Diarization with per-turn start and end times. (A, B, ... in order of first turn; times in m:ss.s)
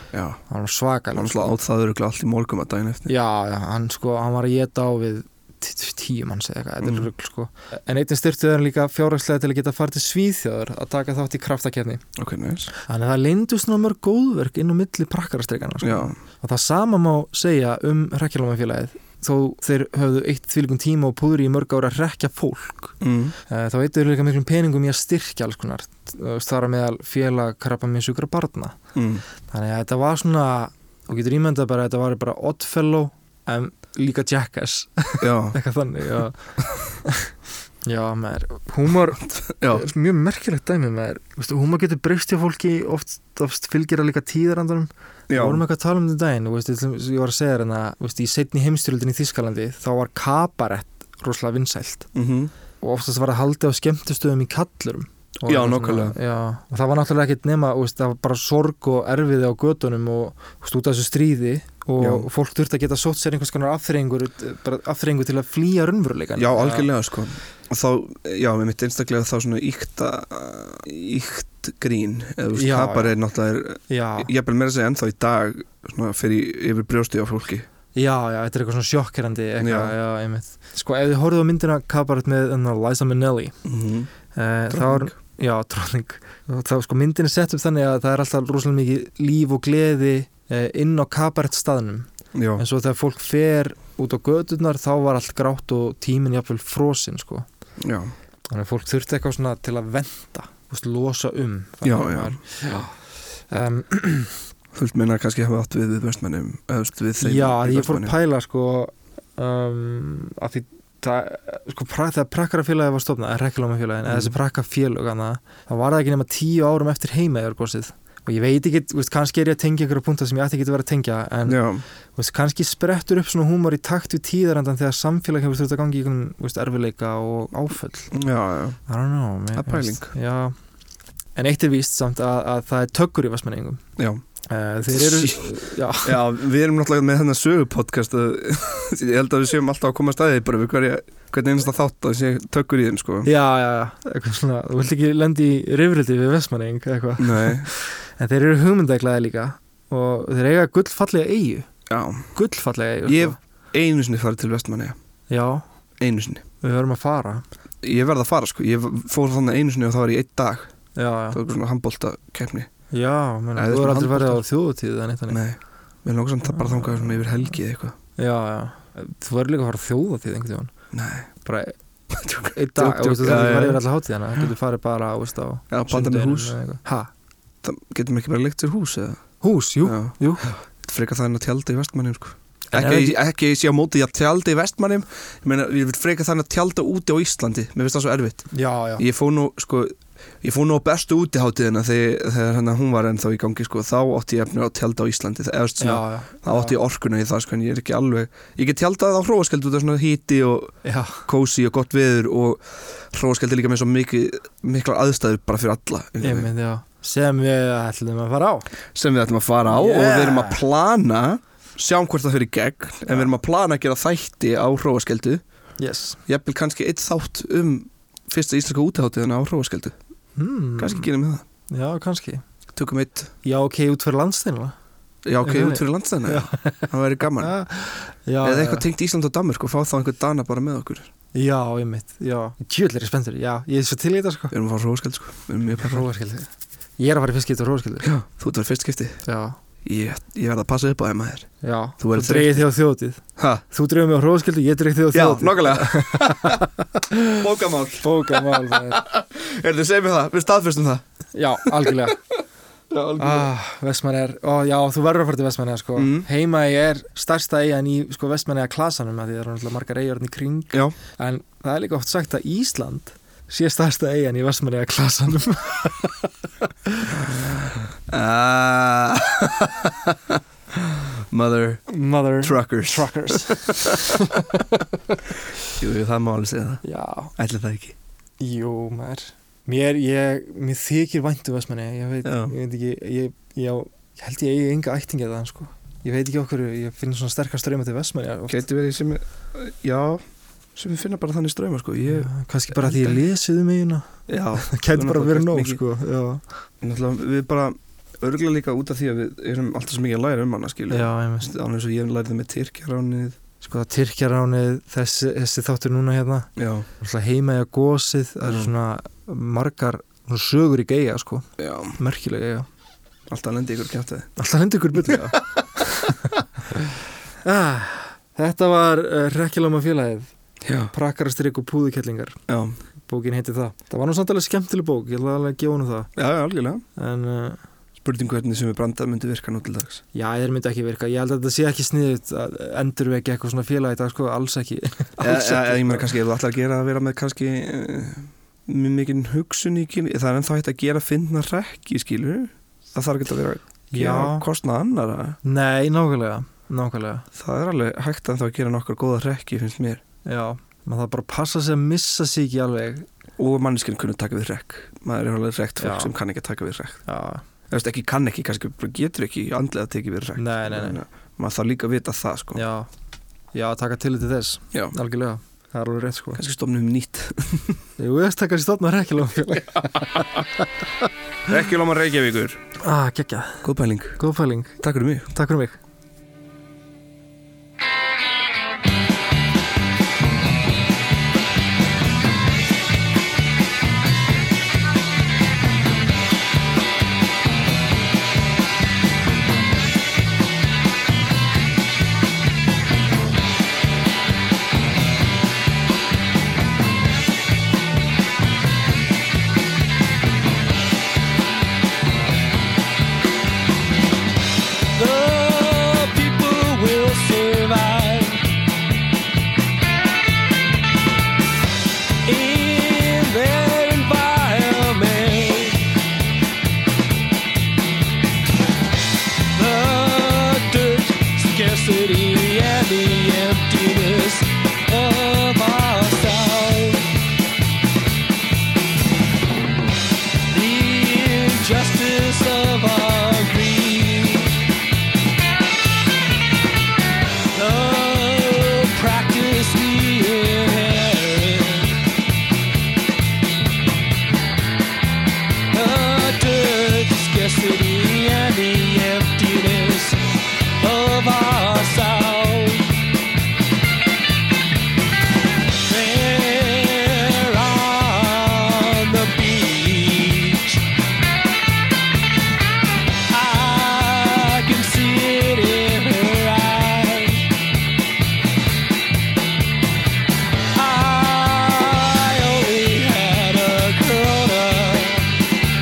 0:00.1-0:00.4 A
0:00.5-0:01.5 B
0:01.1-0:03.1 A
0:03.1-0:12.0 B
0:06.8-0:07.1 A
0:12.2-0:12.7 A
0:12.8-0:28.8 B
0:15.8-0:16.2 A
0:23.0-0:23.3 A
0:28.9-0:29.2 A
0:29.5-0:36.4 B
0:35.2-0:35.6 A
0:37.0-0:37.3 B
0:37.8-0:52.1 B
0:39.6-0:39.8 A
0:45.3-0:45.6 A
0:52.1-0:52.5 A
0:52.8-1:06.9 B
0:55.4-0:56.2 A
1:02.0-1:02.3 A
1:06.4-1:17.7 A
1:12.5-1:13.1 B
1:13.9-1:14.3 B
1:17.9-1:23.6 B
1:19.6-1:19.9 A
1:23.6-1:24.1 A
1:24.3-1:37.4 B
1:24.7-1:25.1 A
1:32.3-1:32.6 A
1:37.8-1:38.1 A
1:38.5-1:42.9 B
1:41.8-1:42.4 A
1:43.5-1:44.4 B
1:44.7-1:48.1 A
1:47.2-2:01.6 B
1:54.1-1:54.3 A
2:01.4-2:01.8 A
2:02.2-2:08.1 B
2:08.1-2:08.8 A
2:08.9-2:10.5 B
2:09.5-2:10.1 A
2:11.4-2:13.8 B
2:14.0-2:14.2 A
2:14.5-2:16.2 B
2:14.9-2:23.3 A
2:23.2-2:31.7 B
2:27.2-2:27.7 A
2:31.9-2:32.3 A
2:32.3-2:33.4 B
2:33.0-2:35.0 A
2:35.3-2:35.6 B
2:36.0-2:36.4 A
2:36.6-2:37.4 B
2:37.8-2:40.7 A
2:41.0-2:41.4 B
2:41.3-2:42.7 A
2:42.9-2:45.4 B
2:43.6-2:44.4 A
2:45.3-2:47.9 A
2:46.5-2:47.2 B
2:48.2-2:50.7 B
2:50.9-2:51.3 A
2:51.4-2:51.7 B
2:52.1-2:53.8 A
2:52.5-2:57.1 B
2:55.7-2:56.6 A
2:57.6-2:59.2 A
2:59.4-3:00.5 B
2:59.8-3:26.5 A
3:02.7-3:03.2 B
3:08.5-3:09.0 B
3:15.8-3:16.8 B
3:20.8-3:21.2 B
3:26.2-3:28.7 B
3:28.9-3:35.4 A
3:29.7-3:30.6 B
3:35.8-3:36.2 B
3:36.3-3:39.9 A
3:40.4-3:41.1 B
3:40.8-3:41.4 A
3:41.7-3:42.4 B
3:42.7-3:43.3 A
3:43.4-3:44.7 B
3:45.2-3:47.5 A
3:45.4-3:46.9 B
3:47.4-3:48.9 B
3:48.4-3:51.1 A
3:51.3-3:54.5 B
3:54.5-3:56.0 A
3:55.7-3:58.1 B
3:58.0-3:59.2 A
3:59.2-3:59.6 B
3:59.8-4:02.7 A
4:01.6-4:07.4 B
4:03.4-4:03.6 A
4:05.1-4:06.6 A
4:07.4-4:11.0 A
4:08.0-4:09.0 B
4:11.3-4:12.2 B
4:11.6-4:12.1 A
4:12.9-4:13.5 A
4:13.2-4:26.3 B
4:16.0-4:16.3 A
4:26.9-4:27.2 B
4:27.1-4:34.0 A
4:31.9-4:35.2 B
4:35.7-4:36.8 A
4:36.8-4:37.3 B
4:37.4-4:38.0 A
4:38.4-4:48.6 B
4:42.2-4:42.5 A
4:48.5-4:50.2 A
4:50.7-4:53.2 A
4:52.1-4:56.4 B
4:54.3-4:55.8 A
4:56.8-5:03.4 A
5:00.9-5:01.5 B
5:03.6-5:12.7 B
5:06.6-5:06.9 A
5:08.4-5:08.7 A
5:11.6-5:12.0 A
5:13.3-5:14.3 A
5:14.4-5:16.2 B
5:15.0-5:15.6 A
5:17.4-5:20.3 B
5:20.6-5:20.9 A
5:20.9-5:22.4 B
5:22.5-5:22.8 A
5:23.0-5:26.1 B
5:26.2-5:26.8 A
5:27.0-5:27.6 B
5:28.0-5:30.0 A
5:30.1-5:36.1 B
5:35.2-5:45.4 A
5:43.9-5:44.5 B
5:45.4-5:47.2 B
5:47.4-5:50.0 A
5:50.2-5:53.1 B
5:53.4-5:57.0 A
5:55.8-5:56.1 B
5:57.0-5:57.4 B
5:57.7-6:02.6 A
6:00.4-6:01.0 B
6:02.5-6:02.9 B
6:03.5-6:06.4 B
6:06.3-6:07.8 A
6:08.0-6:10.4 B
6:11.5-6:12.6 A
6:12.8-6:15.8 B
6:13.6-6:14.2 A
6:14.8-6:15.3 A
6:45.0-6:48.4 C
6:52.2-6:55.8 C
6:59.5-7:07.1 C
7:10.5-7:14.6 C
7:17.5-7:22.0 C
7:25.7-7:32.9 C
7:35.8-7:40.8 C
7:43.3-7:47.4 C
7:50.7-7:55.4 C